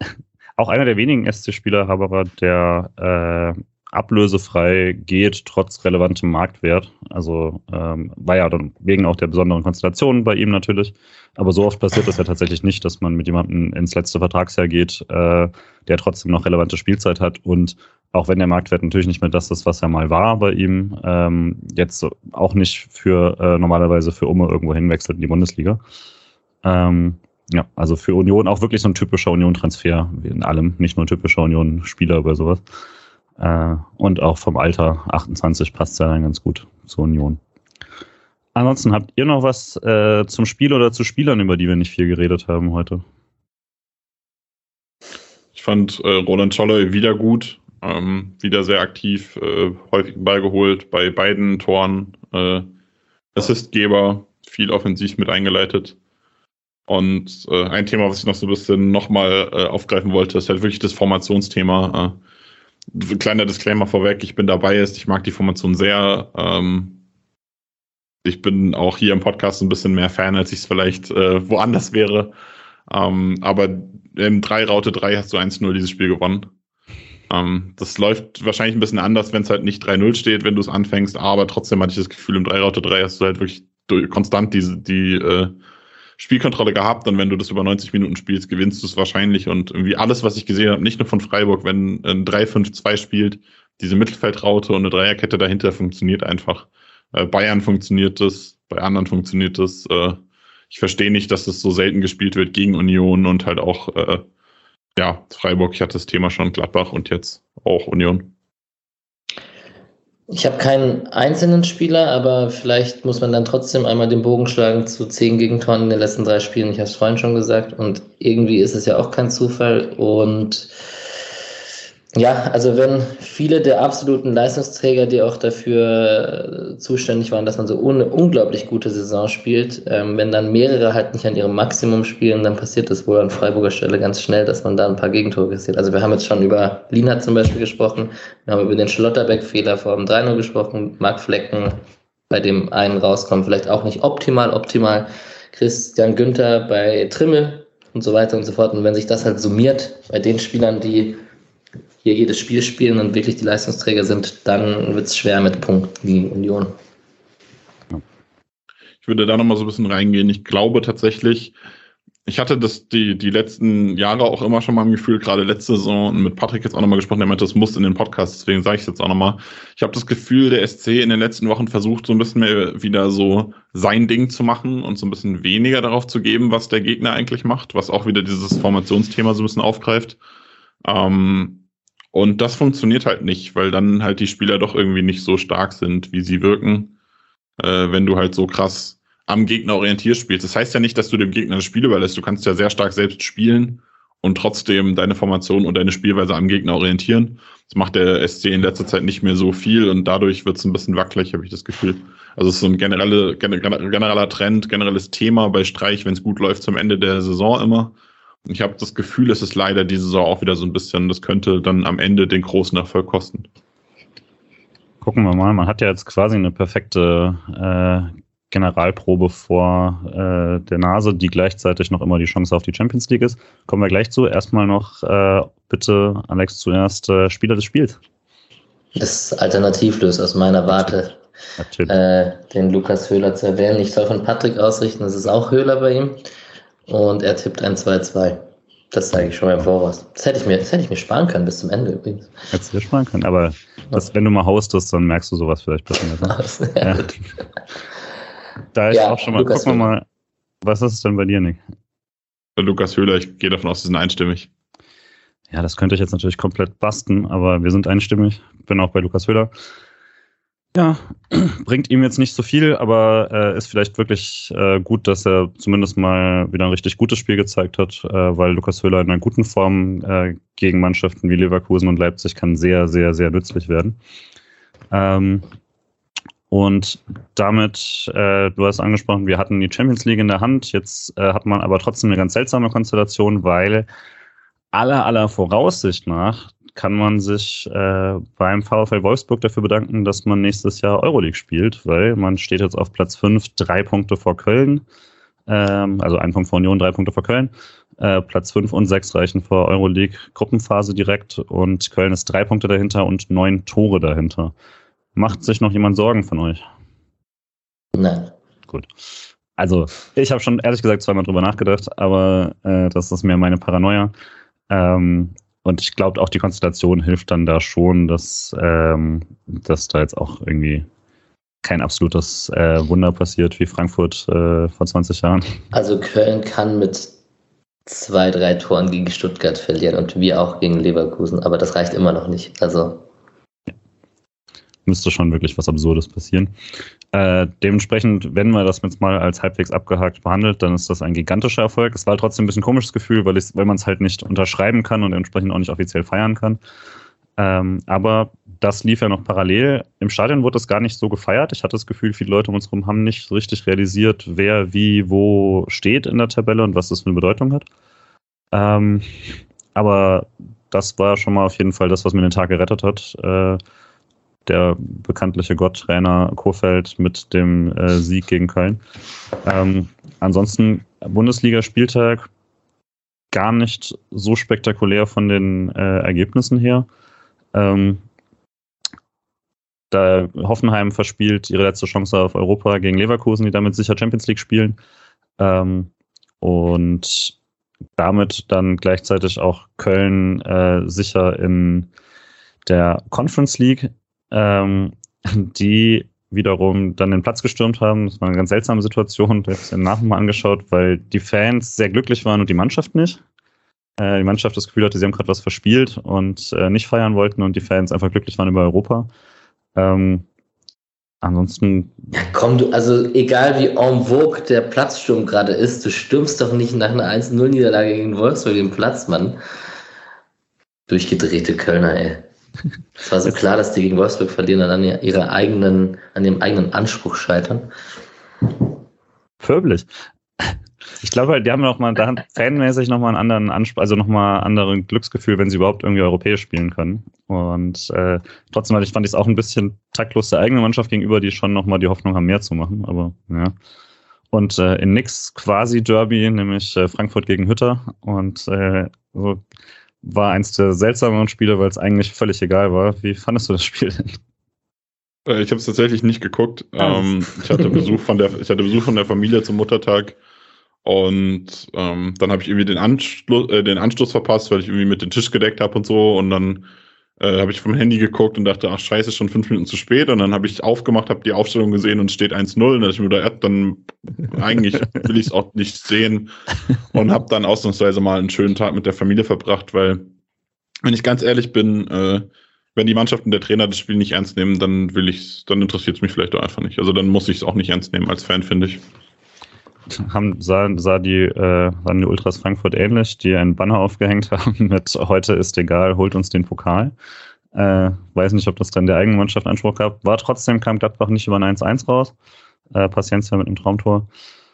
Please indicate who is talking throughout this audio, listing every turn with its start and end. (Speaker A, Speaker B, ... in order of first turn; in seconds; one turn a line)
Speaker A: 0.6-25.8
Speaker A: 26.6-32.6
Speaker A: 33.4-37.4
Speaker A: 38.5-43.0
Speaker B: 45.5-52.7
Speaker B: 53.3-56.0
Speaker B: 56.9-62.2
Speaker B: 62.9-67.0
Speaker B: 68.2-72.3
Speaker B: 72.9-76.5
Speaker B: 77.3-85.5
Speaker B: 86.2-104.2
Speaker B: 105.0-108.3
Speaker C: 110.3-120.7
Speaker C: 122.1-141.8
Speaker C: 142.3-151.2
Speaker C: 152.0-156.7
Speaker B: 159.0-161.6
Speaker B: 162.2-180.2
Speaker B: 180.8-186.9
Speaker B: 187.6-207.9
Speaker B: 208.4-213.5
Speaker A: 215.0-228.0
Speaker C: 228.9-231.2
Speaker A: 231.6-231.9
Speaker C: 231.9-236.2
Speaker C: 236.9-242.3
Speaker A: 242.5-247.1
Speaker C: 246.2-247.2
Speaker A: 248.7-250.0
Speaker C: 248.9-249.9
Speaker A: 250.6-251.6
Speaker B: 252.6-254.5
Speaker A: 255.5-259.5
Speaker A: 260.7-274.0
Speaker A: 274.9-275.4
Speaker A: 276.5-283.9
Speaker A: 284.7-294.8
Speaker A: 295.5-304.5
Speaker A: 305.1-306.6
Speaker C: 307.9-308.3
Speaker A: 309.6-314.1
Speaker A: 314.7-320.9
Speaker A: 321.6-325.6
Speaker C: 325.7-327.1
Speaker C: 327.9-333.0
Speaker A: 334.9-336.5
Speaker A: 337.1-346.6
Speaker A: 347.4-357.6
Speaker A: 358.5-363.6
Speaker A: 364.4-368.8
Speaker A: 369.4-372.3
Speaker A: 373.3-376.9
Speaker A: 377.5-378.0
Speaker A: 379.9-384.8
Speaker A: 385.4-387.3
Speaker A: 388.0-391.9
Speaker A: 392.6-403.2
Speaker A: 404.0-409.1
Speaker A: 409.8-410.2
Speaker A: 411.2-412.3
Speaker C: 412.1-419.4
Speaker C: 420.9-422.2
Speaker C: 423.0-427.7
Speaker A: 429.4-443.5
Speaker A: 444.3-449.4
Speaker A: 450.0-454.2
Speaker B: 455.2-460.2
Speaker B: 460.8-466.7
Speaker B: 467.2-476.3
Speaker B: 476.9-480.1
Speaker B: 480.8-488.8
Speaker A: 490.0-496.9
Speaker A: 497.5-502.1
Speaker A: 502.7-504.1